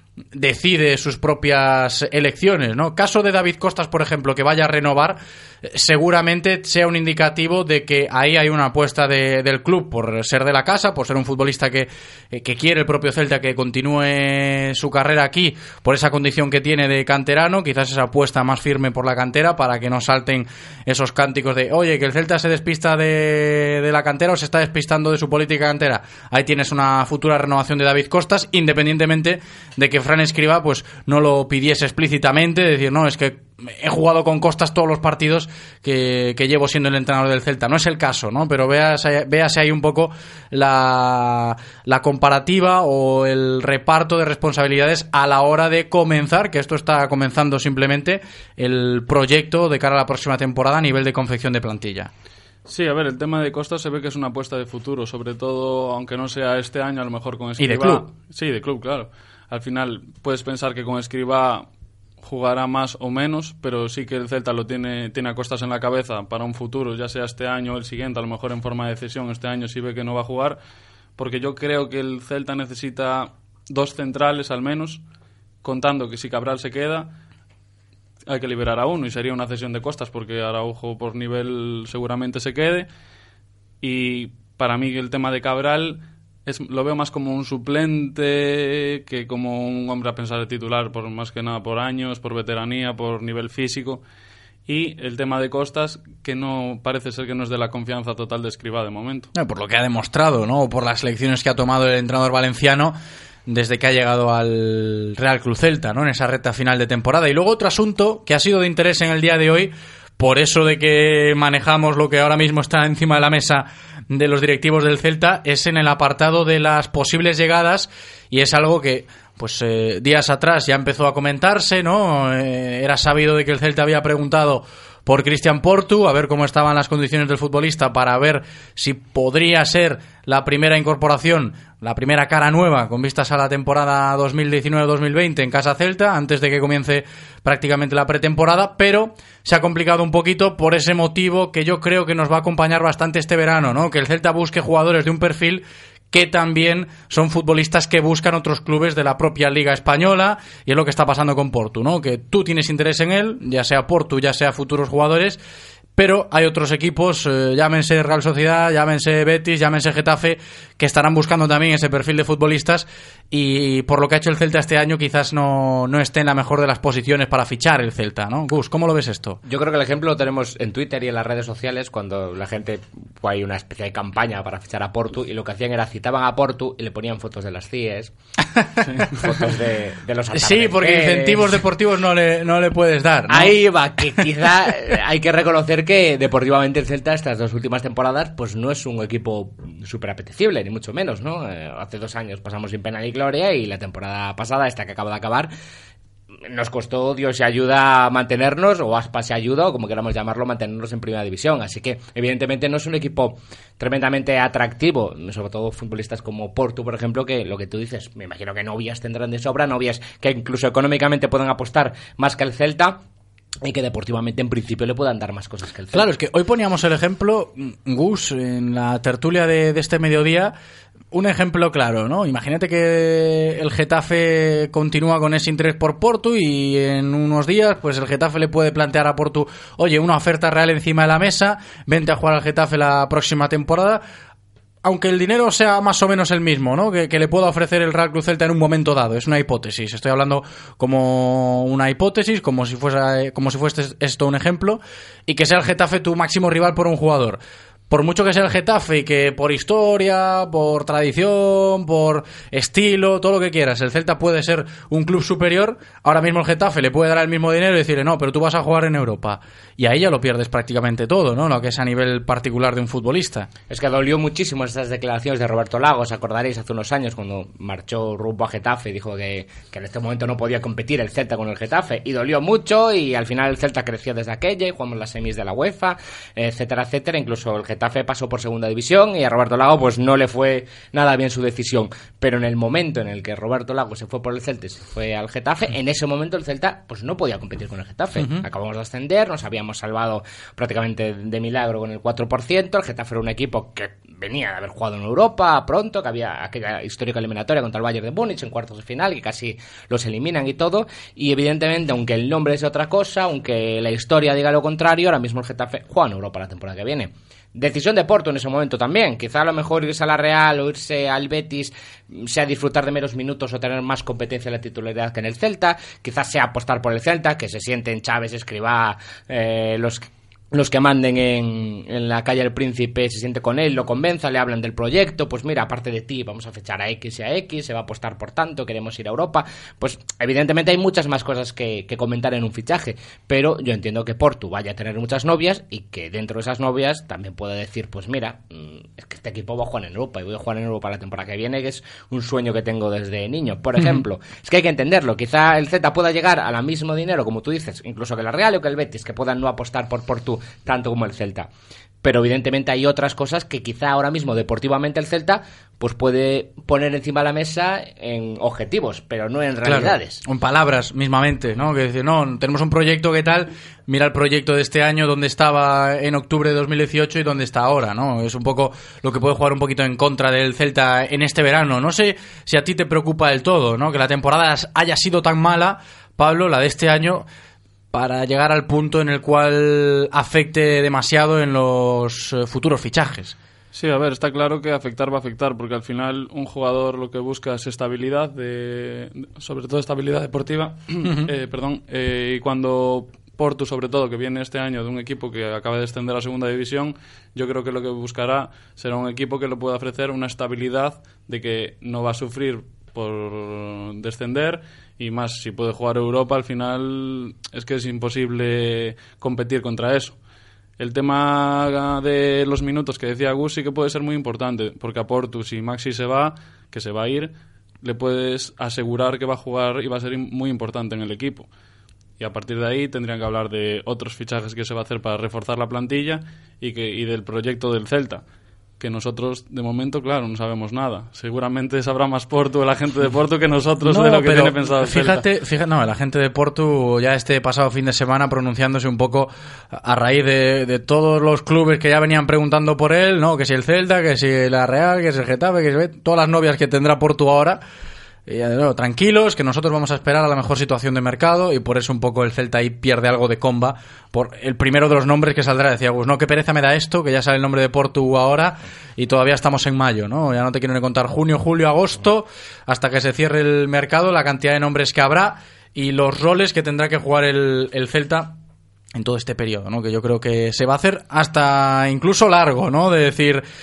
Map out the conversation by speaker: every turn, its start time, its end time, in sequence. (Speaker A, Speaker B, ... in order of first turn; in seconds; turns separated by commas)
Speaker A: 0.3-52.1, Speaker B: 52.7-61.7, Speaker A: 57.6-58.0, Speaker B: 62.2-70.6, Speaker B: 71.2-75.0, Speaker B: 75.6-77.1, Speaker B: 78.3-82.9, Speaker B: 83.8-94.0, Speaker B: 94.7-99.3, Speaker A: 99.3-103.0, Speaker A: 103.5-155.4, Speaker A: 156.0-169.4, Speaker C: 169.5-178.1, Speaker A: 178.6-179.4, Speaker C: 179.1-181.6, Speaker A: 180.3-183.6, Speaker C: 183.3-195.5, Speaker C: 196.5-213.0, Speaker C: 213.6-216.1, Speaker A: 215.9-220.5, Speaker A: 221.1-234.0, Speaker A: 234.8-247.4, Speaker A: 247.9-263.5, Speaker C: 263.7-351.5, Speaker A: 288.2-288.4, Speaker C: 352.0-360.2, Speaker A: 359.6-377.3, Speaker A: 377.9-383.4, Speaker B: 383.7-410.2, Speaker A: 391.0-391.3, Speaker B: 410.8-421.5, Speaker B: 422.2-428.2, Speaker B: 428.8-435.2, Speaker A: 433.9-447.6, Speaker A: 448.3-468.4, Speaker A: 468.9-473.4